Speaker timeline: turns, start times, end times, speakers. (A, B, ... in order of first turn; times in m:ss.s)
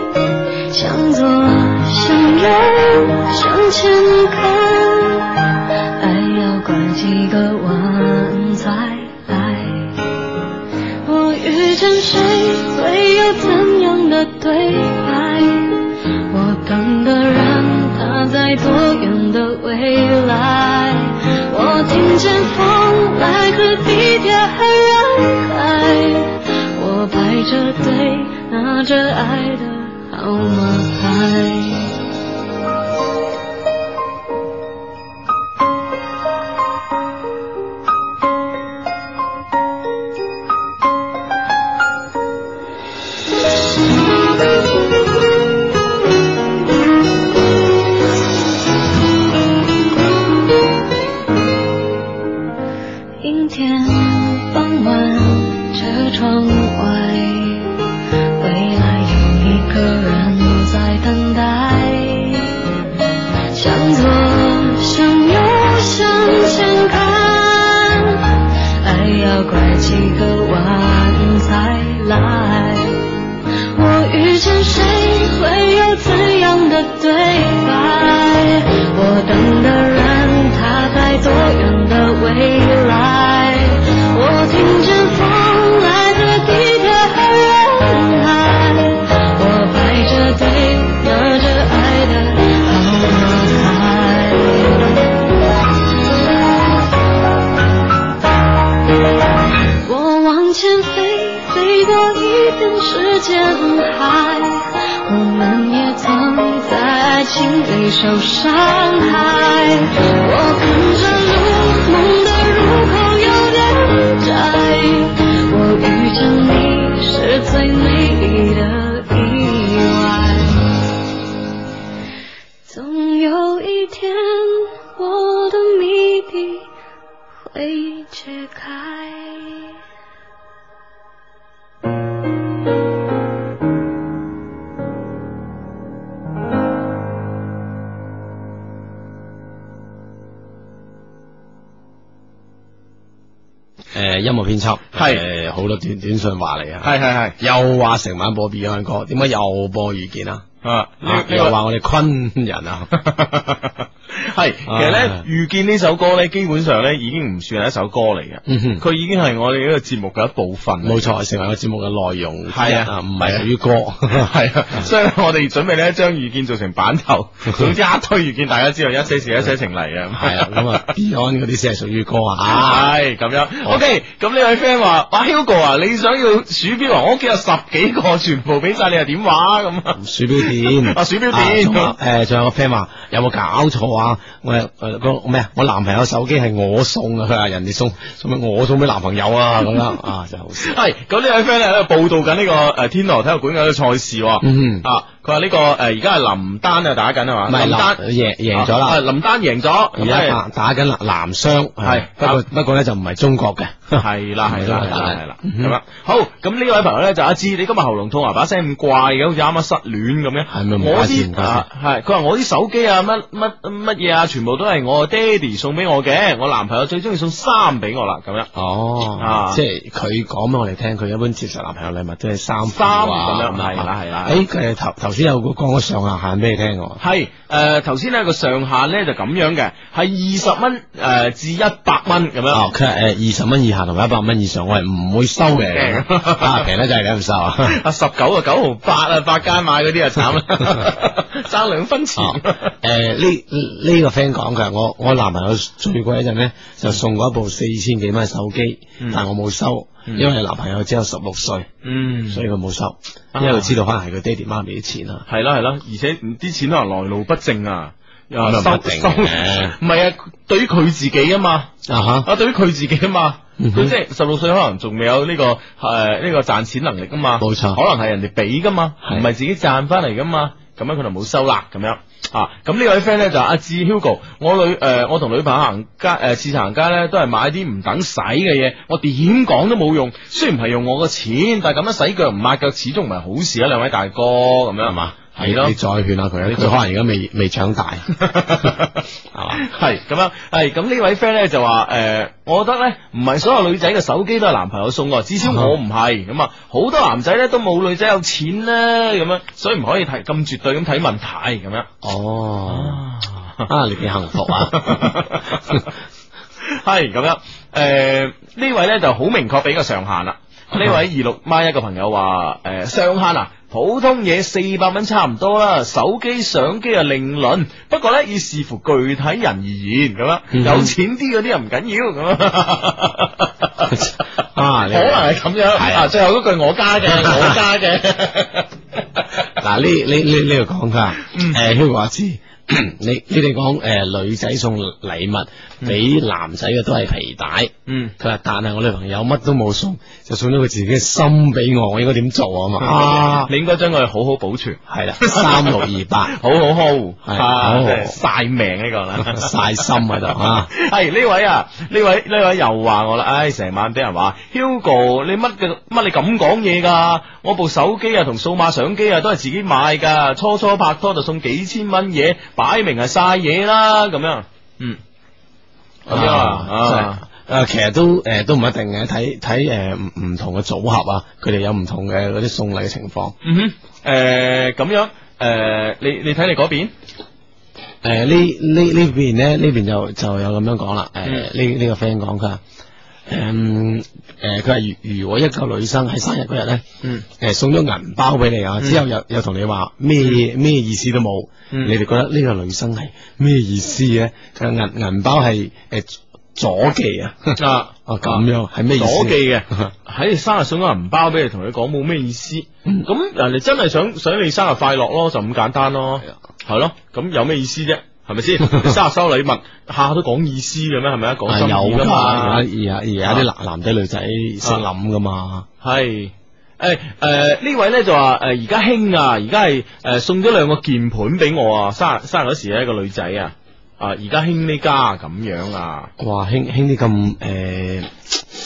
0:00.7-0:10.0 A
0:11.0-0:31.9 A
0:53.2-0:57.7 A
0:58.4-1:02.6 A
1:03.5-1:13.0 A
1:13.7-1:35.0 A
1:39.8-2:00.6 A
2:02.7-2:06.7 A
2:07.4-2:09.8 A
2:23.9-2:30.4 B
2:24.9-2:25.2 C
2:26.8-2:27.4 C
2:30.6-2:31.6 C
2:31.0-2:32.9 B
2:32.9-2:41.1 C
2:34.7-2:35.2 B
2:38.5-2:38.8 B
2:40.8-2:44.9 B
2:42.5-2:43.4 C
2:44.1-2:50.9 C
2:50.1-2:52.9 B
2:52.5-3:01.9 C
2:59.9-3:10.8 B
3:10.6-3:18.0 C
3:14.4-3:14.9 B
3:17.5-3:19.0 B
3:18.5-3:20.4 C
3:20.0-3:25.8 B
3:21.8-3:22.4 C
3:23.9-3:38.5 C
3:30.5-3:31.7 B
3:38.5-3:47.0 B
3:39.2-3:39.6 C
3:42.7-3:44.4 C
3:47.0-3:52.6 C
3:52.5-3:57.8 B
3:55.6-3:56.7 C
3:57.6-4:02.7 C
4:02.2-4:11.7 B
4:11.8-4:12.4 C
4:12.3-4:15.2 B
4:13.3-4:13.8 C
4:15.3-4:21.7 C
4:18.4-4:19.8 B
4:21.9-4:22.3 B
4:22.2-4:45.8 C
4:23.6-4:24.0 B
4:27.4-4:27.8 B
4:44.8-4:48.1 B
4:46.5-4:46.7 C
4:48.1-5:01.9 C
4:49.3-4:49.6 B
4:55.4-4:55.8 B
5:02.0-5:03.0 B
5:02.7-5:03.7 C
5:03.7-5:05.9 B
5:04.4-5:05.8 C
5:06.6-5:24.1 C
5:20.5-5:20.9 B
5:23.9-5:26.1 B
5:24.9-5:29.2 C
5:27.1-5:27.6 B
5:29.6-5:43.5 B
5:31.2-5:31.6 C
5:37.9-5:38.1 C
5:42.8-6:05.0 C
5:44.9-5:46.4 B
5:47.2-5:48.2 B
5:49.2-5:50.7 B
6:06.1-6:07.2 C
6:06.1-6:13.4 B
6:13.4-6:16.9 C
6:18.0-6:22.6 B
6:23.3-6:39.9 B
6:37.6-6:52.6 C
6:48.7-6:49.0 B
6:51.5-6:55.7 B
6:55.8-7:06.1 C
7:06.2-7:08.1 B